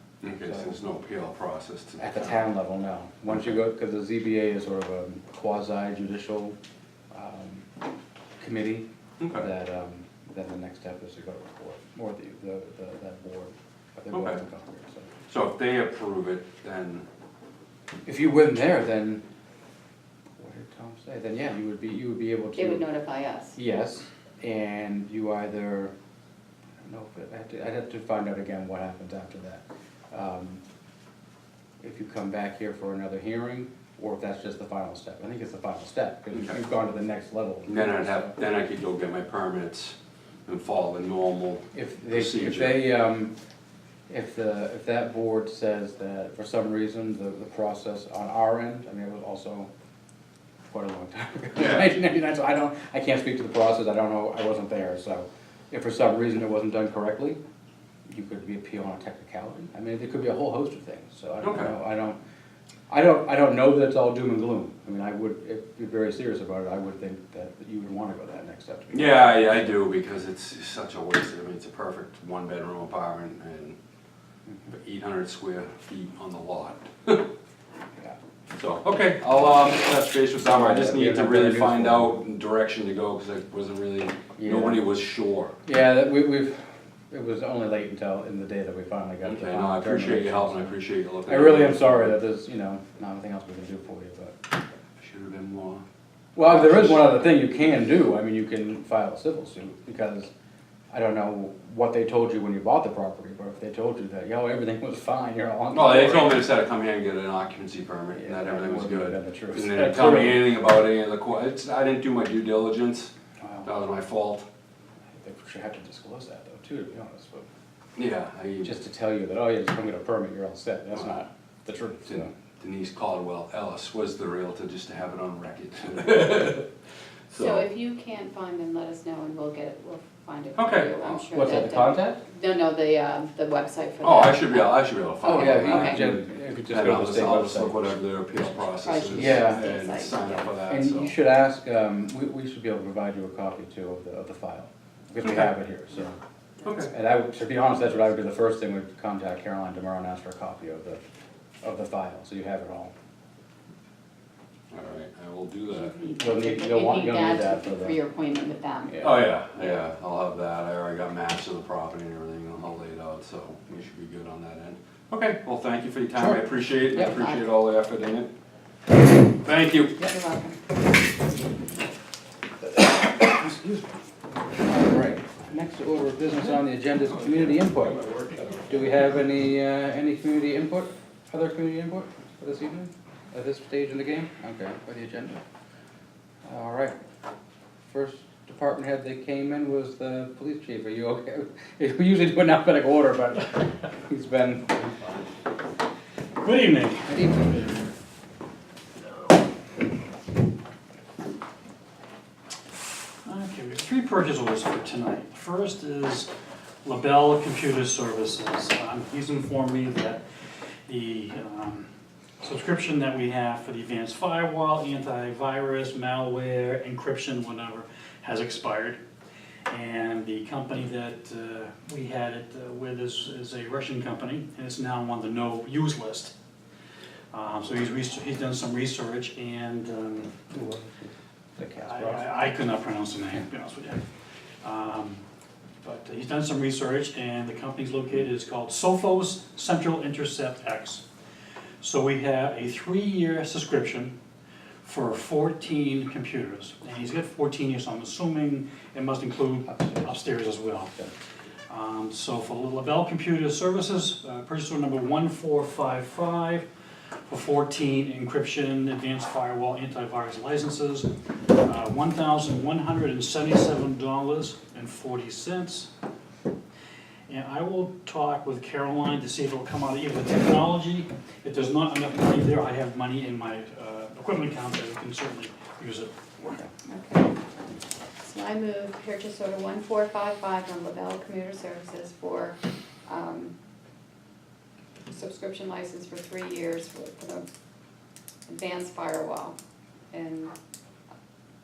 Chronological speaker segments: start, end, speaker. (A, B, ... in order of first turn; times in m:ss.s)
0:00.2-0:02.4 A
0:00.4-0:00.8 B
0:02.0-0:06.6 B
0:07.1-0:07.7 B
0:08.4-0:15.1 B
0:09.2-0:09.5 A
0:14.1-0:14.4 A
0:15.3-0:17.0 A
0:18.0-0:19.2 B
0:20.4-0:22.8 B
0:22.5-0:23.6 C
0:23.6-0:25.9 B
0:26.8-0:30.6 B
0:31.8-0:38.3 B
0:36.3-0:36.6 A
0:37.6-0:42.8 A
0:41.7-0:43.3 B
0:44.1-0:49.7 B
0:50.7-0:57.4 B
0:51.5-0:51.9 A
0:58.1-1:02.2 B
1:01.4-1:01.7 A
1:02.9-1:09.8 B
1:08.9-1:13.8 A
1:14.7-1:17.3 A
1:18.5-1:25.6 A
1:20.4-1:22.1 B
1:24.4-1:24.8 B
1:25.6-1:30.7 B
1:29.2-1:32.2 A
1:31.3-1:34.4 B
1:35.0-1:35.8 A
1:36.4-1:40.3 B
1:36.4-1:37.1 A
1:40.9-1:46.5 B
1:45.7-1:53.1 A
1:48.1-1:50.5 B
1:53.6-1:54.4 A
1:55.2-1:57.4 B
1:58.0-1:58.7 A
1:58.6-2:02.3 B
2:02.0-2:06.7 A
2:07.3-2:07.6 A
2:07.4-2:16.0 C
2:10.5-2:11.2 A
2:11.3-2:12.2 B
2:14.0-2:21.1 A
2:15.2-2:17.9 B
2:18.8-2:20.5 C
2:19.1-2:19.6 B
2:20.7-2:26.2 B
2:26.6-2:26.9 A
2:26.9-2:31.0 B
2:31.6-2:32.9 B
2:34.7-2:35.9 A
2:35.7-2:39.0 C
2:36.2-2:38.0 B
2:38.9-2:39.2 B
2:39.0-2:48.3 A
2:46.2-2:46.4 B
2:47.0-2:47.4 C
2:49.4-2:50.0 A
2:50.0-2:50.6 C
2:54.6-2:58.0 B
2:57.1-2:59.0 A
2:58.7-3:05.4 B
3:06.4-3:07.0 B
3:07.9-3:15.2 B
3:16.4-3:17.1 D
3:17.0-3:17.8 B
3:23.2-3:26.3 D
3:26.8-3:30.2 D
3:30.8-3:31.9 D
3:32.4-3:39.0 D
3:39.7-3:46.3 D
3:47.3-3:50.3 D
3:50.5-3:52.3 B
3:51.8-3:54.0 D
3:54.6-3:55.2 D
3:55.8-4:01.0 D
4:01.8-4:04.1 D
4:04.8-4:11.0 D
4:09.7-4:10.2 B
4:11.7-4:16.7 D
4:17.2-4:25.9 D
4:27.3-4:36.5 D
4:36.4-4:36.7 B
4:36.8-4:37.4 C
4:38.2-4:43.5 C
4:45.1-4:47.4 C
4:48.5-4:49.5 C
4:50.1-4:50.5 C